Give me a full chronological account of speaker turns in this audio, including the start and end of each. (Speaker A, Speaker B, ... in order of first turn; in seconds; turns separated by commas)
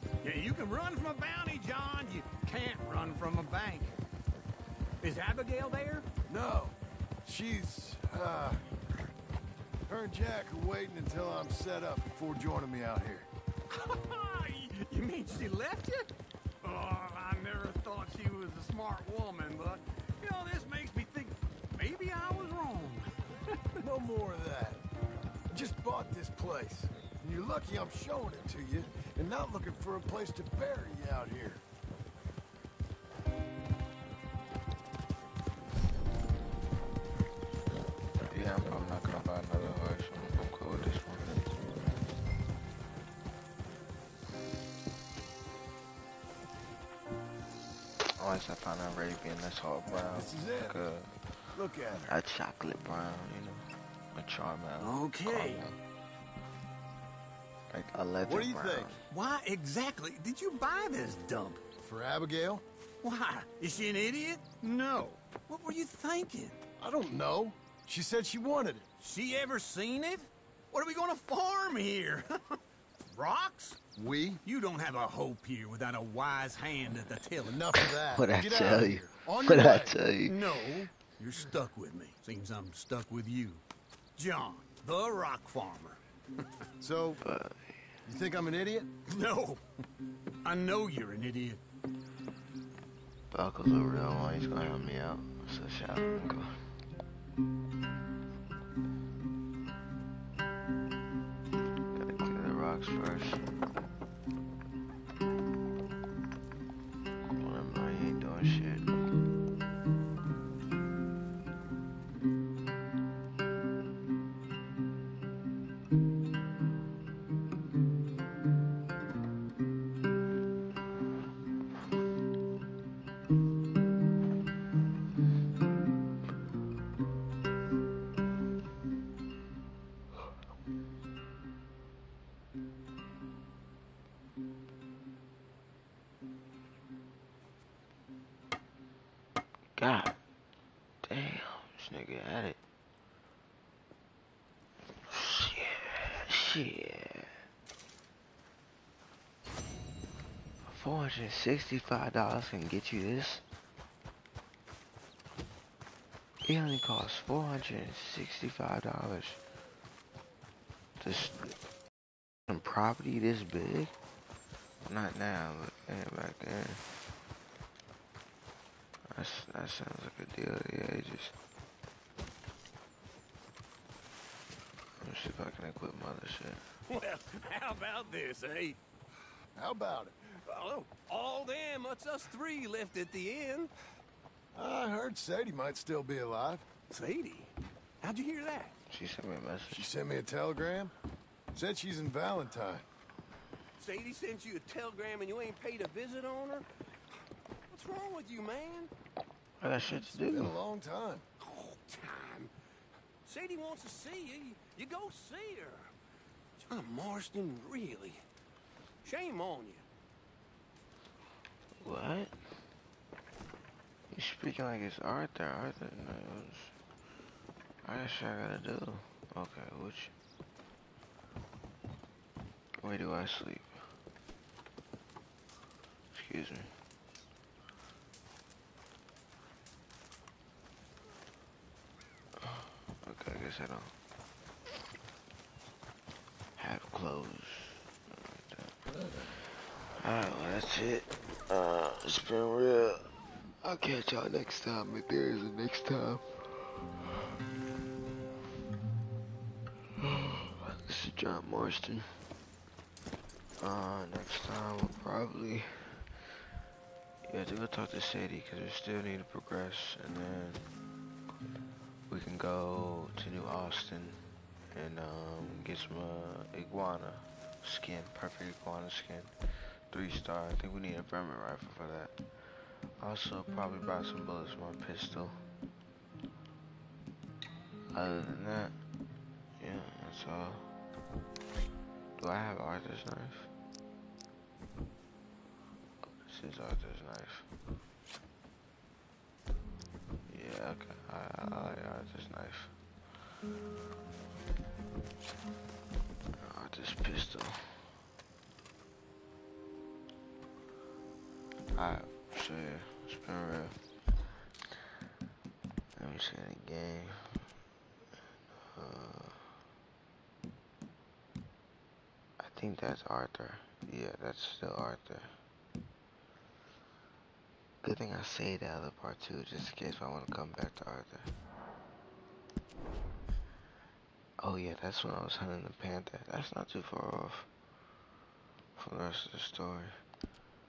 Speaker A: 0.2-3.9, Speaker A: 5.0-6.0, Speaker B: 6.3-8.6, Speaker B: 9.9-13.3, Speaker A: 13.8-16.1, Speaker A: 16.6-23.1, Speaker B: 23.8-24.8, Speaker B: 25.5-31.6, Speaker C: 38.3-41.4, Speaker C: 48.1-51.1, Speaker B: 50.1-50.8, Speaker B: 51.5-52.1, Speaker C: 52.1-55.8, Speaker A: 54.8-55.6, Speaker C: 57.7-59.0, Speaker B: 58.2-58.9, Speaker A: 59.1-61.6, Speaker B: 61.8-62.6, Speaker A: 63.0-66.5, Speaker B: 66.8-68.9, Speaker A: 69.0-72.3, Speaker A: 73.1-73.8, Speaker B: 73.9-74.4, Speaker A: 74.4-77.5, Speaker B: 77.4-80.0, Speaker C: 77.7-80.8, Speaker A: 80.3-83.6, Speaker A: 84.2-86.0, Speaker B: 86.8-87.2, Speaker C: 87.2-87.8, Speaker B: 88.0-88.9, Speaker A: 89.1-89.6, Speaker A: 90.4-91.6, Speaker C: 93.3-96.7, Speaker C: 101.9-103.5, Speaker C: 107.3-109.0, Speaker C: 139.8-140.2, Speaker C: 141.0-142.6, Speaker C: 145.1-147.4, Speaker C: 150.6-153.4, Speaker C: 156.4-159.4, Speaker C: 161.0-161.5, Speaker C: 162.5-163.9, Speaker C: 164.8-166.9, Speaker C: 169.1-171.3, Speaker C: 175.0-176.7, Speaker A: 176.9-178.8, Speaker B: 179.5-180.1, Speaker A: 180.4-183.7, Speaker B: 184.5-186.6, Speaker A: 186.9-187.5, Speaker A: 188.0-188.7, Speaker C: 188.9-189.9, Speaker B: 189.7-190.9, Speaker B: 191.5-192.8, Speaker A: 193.8-196.6, Speaker A: 197.7-198.9, Speaker C: 199.6-200.6, Speaker B: 200.1-201.2, Speaker A: 201.5-202.5, Speaker A: 203.3-205.9, Speaker A: 206.7-208.2, Speaker A: 209.0-209.8, Speaker C: 211.8-212.7, Speaker C: 214.1-216.7, Speaker C: 217.8-220.1, Speaker C: 222.8-223.8, Speaker C: 226.1-226.7, Speaker C: 232.4-233.9, Speaker C: 236.6-246.9, Speaker C: 250.0-252.2, Speaker C: 253.6-256.3, Speaker C: 257.2-260.7, Speaker C: 262.1-275.4, Speaker C: 277.9-278.8, Speaker C: 279.6-280.7, Speaker C: 282.1-283.5, Speaker C: 286.2-287.5, Speaker C: 290.3-292.7, Speaker C: 296.4-297.9, Speaker C: 301.7-303.8, Speaker C: 305.9-307.5, Speaker C: 308.5-309.6, Speaker C: 312.4-315.3, Speaker C: 317.8-321.3, Speaker C: 324.4-327.5, Speaker C: 328.8-329.9